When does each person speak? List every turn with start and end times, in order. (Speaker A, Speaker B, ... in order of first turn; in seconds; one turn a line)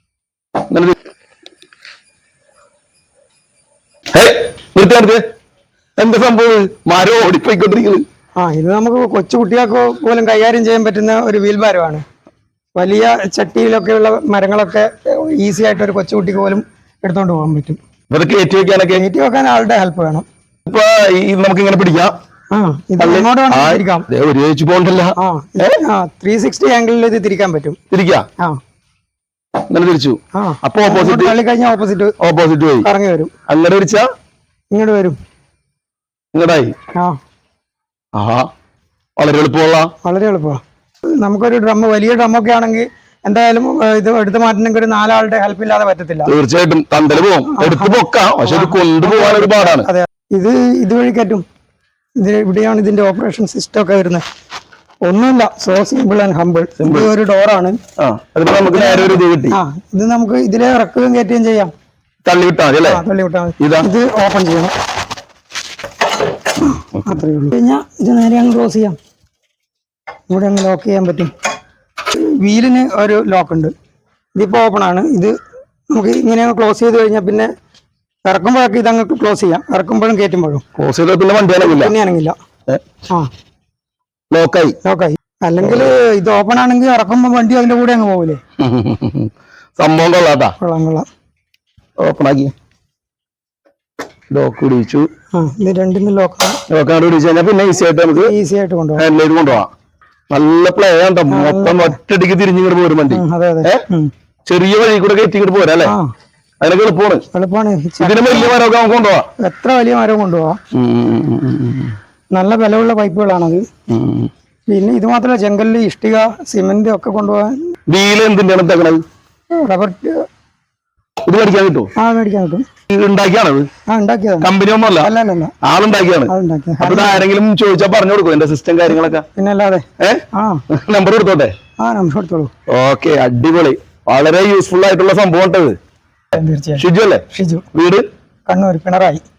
Speaker A: 0.7-1.0
Speaker A: 4.1-5.2
Speaker A: 6.0-8.0
Speaker B: 8.4-12.0
Speaker B: 12.8-17.8
Speaker A: 18.1-19.0
Speaker B: 18.9-20.2
Speaker A: 20.6-22.1
Speaker B: 22.5-24.1
Speaker A: 23.0-25.8
Speaker B: 25.2-27.8
Speaker A: 27.9-28.2
Speaker A: 29.7-31.3
Speaker B: 30.3-32.1
Speaker A: 32.2-32.9
Speaker B: 32.8-33.3
Speaker A: 33.5-34.0
Speaker B: 34.7-35.2
Speaker A: 36.3-36.7
Speaker A: 38.1-38.5
Speaker A: 39.2-39.9
Speaker B: 40.0-46.3
Speaker A: 46.2-49.9
Speaker B: 47.5-51.4
Speaker B: 52.2-54.2
Speaker B: 55.0-57.8
Speaker A: 56.8-57.1
Speaker A: 58.0-59.6
Speaker B: 58.7-61.7
Speaker A: 62.2-63.0
Speaker B: 62.8-64.7
Speaker A: 63.6-63.9
Speaker B: 66.6-69.0
Speaker B: 70.3-71.3
Speaker B: 72.1-73.7
Speaker B: 74.4-75.3
Speaker B: 75.9-77.5
Speaker B: 78.2-80.6
Speaker A: 80.7-81.9
Speaker B: 81.6-82.3
Speaker A: 84.3-84.8
Speaker B: 84.8-88.4
Speaker A: 88.6-90.5
Speaker B: 90.6-91.0
Speaker A: 92.0-92.5
Speaker A: 94.3-95.1
Speaker B: 95.3-96.6
Speaker A: 96.7-98.3
Speaker B: 98.2-99.0
Speaker A: 99.0-99.7
Speaker A: 100.3-103.8
Speaker B: 101.3-102.0
Speaker B: 103.1-104.1
Speaker A: 104.5-105.9
Speaker A: 106.6-107.2
Speaker B: 107.3-108.5
Speaker A: 108.0-109.3
Speaker B: 109.4-110.6
Speaker A: 110.7-112.0
Speaker B: 112.3-113.6
Speaker A: 113.9-114.3
Speaker B: 114.7-117.7
Speaker A: 117.9-119.0
Speaker B: 119.6-120.2
Speaker A: 121.3-121.9
Speaker B: 122.0-122.7
Speaker A: 122.9-123.7
Speaker B: 123.9-124.5
Speaker A: 124.4-125.1
Speaker B: 125.0-125.5
Speaker A: 125.6-129.2
Speaker B: 126.3-127.2
Speaker B: 129.3-130.6
Speaker A: 130.0-131.5
Speaker B: 131.8-132.5
Speaker A: 132.7-135.8
Speaker B: 136.3-137.7
Speaker A: 136.8-138.0
Speaker B: 138.5-139.2